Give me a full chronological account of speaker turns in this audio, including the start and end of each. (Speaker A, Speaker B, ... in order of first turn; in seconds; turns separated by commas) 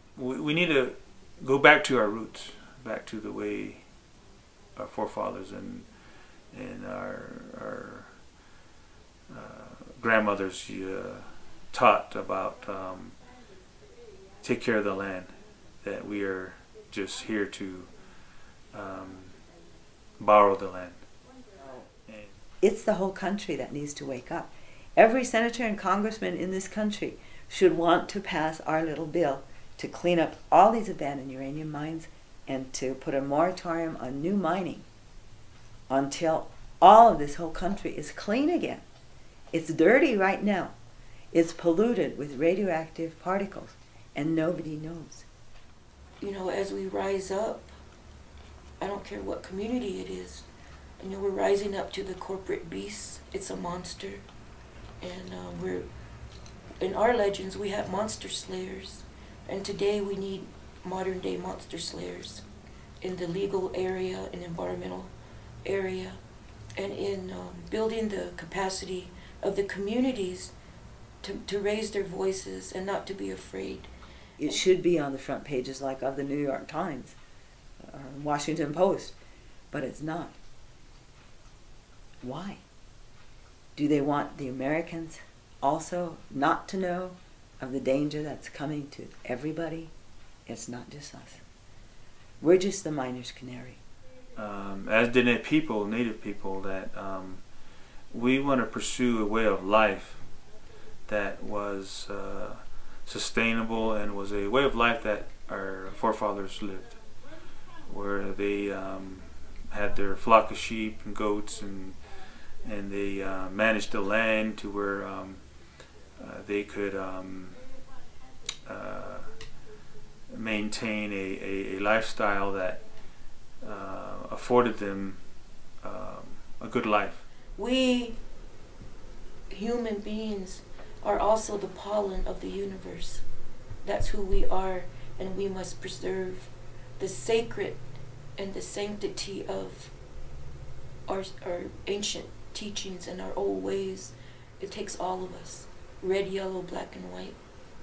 Speaker A: 0.2-3.8, Speaker A: 4.8-5.9, Speaker A: 6.5-8.1, Speaker A: 9.3-13.2, Speaker A: 14.4-15.3, Speaker A: 15.8-17.9, Speaker A: 18.7-19.4, Speaker A: 20.2-21.0, Speaker B: 22.6-34.9, Speaker B: 35.9-38.8, Speaker B: 39.5-40.7, Speaker B: 41.3-45.2, Speaker C: 46.2-47.7, Speaker C: 48.8-50.5, Speaker C: 51.0-54.2, Speaker C: 55.0-55.9, Speaker C: 56.8-62.4, Speaker C: 63.0-65.1, Speaker C: 65.6-66.2, Speaker C: 66.8-70.5, Speaker C: 71.2-73.9, Speaker B: 74.4-77.2, Speaker B: 77.8-79.2, Speaker B: 79.7-80.3, Speaker B: 82.2-82.6, Speaker B: 83.8-89.9, Speaker B: 90.5-91.4, Speaker B: 92.4-93.8, Speaker A: 94.3-97.4, Speaker A: 98.1-100.2, Speaker A: 101.1-107.0, Speaker A: 107.8-112.0, Speaker A: 112.6-115.4, Speaker A: 116.2-117.6, Speaker A: 118.7-119.3, Speaker A: 120.3-122.8, Speaker A: 123.6-125.2, Speaker A: 125.8-127.2, Speaker C: 127.5-128.2, Speaker C: 129.5-133.2, Speaker C: 133.8-137.8, Speaker C: 138.4-139.9, Speaker C: 141.1-147.4